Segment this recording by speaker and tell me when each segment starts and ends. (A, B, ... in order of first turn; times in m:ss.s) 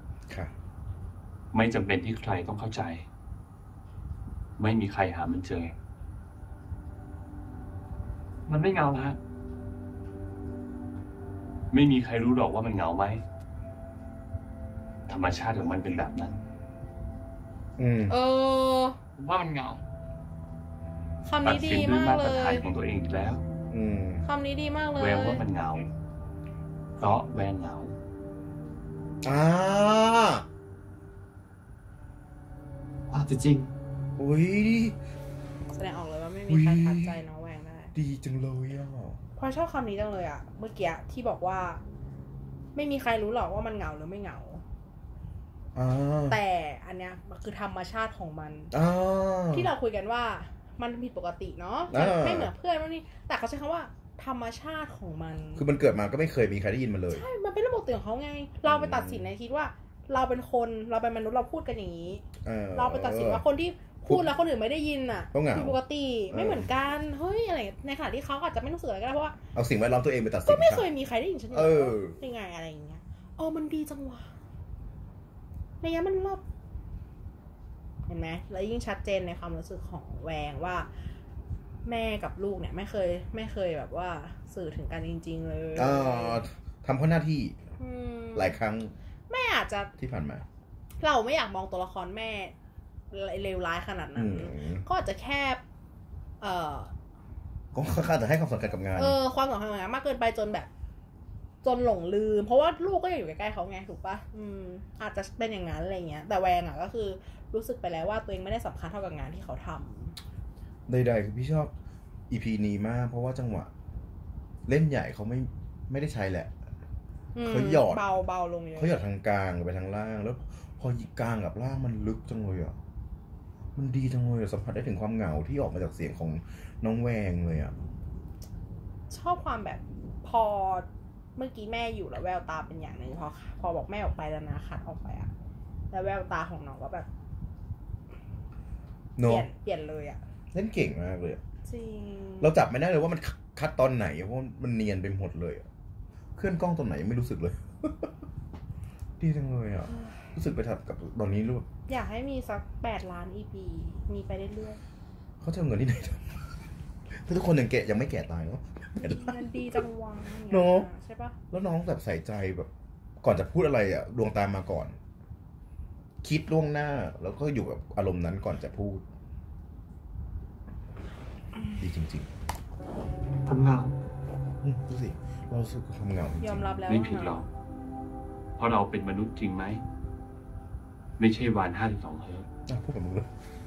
0:01.5-0:03.0 A
0:04.6-0:05.7 A
0:08.5-0:09.2 B
0:11.7-0:13.2 A
0:15.1-0:16.3 A
0:17.8-0:18.1 C
0:18.1-0:19.0 D
0:19.2-0:19.8 B
0:21.2-0:22.6 D
0:21.4-0:23.4 A
0:23.7-0:24.2 C
0:24.2-0:25.4 D
0:25.0-0:25.9 A
0:27.0-0:28.0 A
0:29.2-0:30.4 C
0:33.1-0:33.7 B
0:34.2-0:35.0 C
0:35.7-0:37.9 D
0:36.5-0:37.2 C
0:37.9-0:39.2 C
0:39.4-0:41.8 D
0:42.7-0:44.6 D
0:45.7-0:46.4 C
0:46.3-0:48.7 D
0:48.7-0:49.7 C
0:49.5-0:55.6 D
0:51.9-0:52.5 C
0:55.6-0:57.2 C
0:57.1-1:02.2 D
0:58.6-0:59.3 C
1:02.4-1:03.4 C
1:02.7-1:09.4 D
1:04.0-1:04.3 C
1:05.3-1:05.8 C
1:06.3-1:06.7 C
1:09.5-1:10.9 C
1:10.4-1:14.3 D
1:11.5-1:12.2 C
1:15.8-1:16.4 D
1:18.1-1:20.9 D
1:21.8-1:26.4 D
1:25.8-1:27.6 C
1:27.8-1:28.6 D
1:28.3-1:28.9 C
1:29.3-1:29.9 D
1:30.0-1:30.4 C
1:31.0-1:32.5 D
1:33.1-1:35.6 D
1:34.1-1:34.8 C
1:36.4-1:36.9 D
1:37.7-1:39.2 C
1:39.0-1:40.7 D
1:41.6-1:50.2 D
1:50.9-1:51.7 C
1:52.3-1:53.7 C
1:54.6-1:56.5 C
1:57.3-1:59.0 D
1:57.4-1:58.1 C
1:58.8-2:02.8 C
2:03.7-2:07.7 C
2:09.1-2:15.3 D
2:15.9-2:17.1 D
2:19.2-2:19.5 C
2:19.2-2:20.2 D
2:20.5-2:21.4 C
2:21.7-2:22.5 D
2:22.4-2:25.7 C
2:26.4-2:28.1 C
2:29.2-2:31.7 C
2:29.8-2:30.3 D
2:31.9-2:34.8 D
2:35.4-2:36.2 C
2:37.1-2:39.8 C
2:39.0-2:41.3 D
2:40.5-2:40.9 C
2:41.5-2:42.7 C
2:43.2-2:45.0 C
2:46.2-2:49.0 C
2:51.8-2:52.3 C
2:53.4-2:53.9 B
2:54.6-2:56.7 C
2:56.4-2:57.5 D
2:56.9-2:57.5 A
2:58.6-2:59.8 A
3:01.2-3:02.5 A
3:02.7-3:03.3 C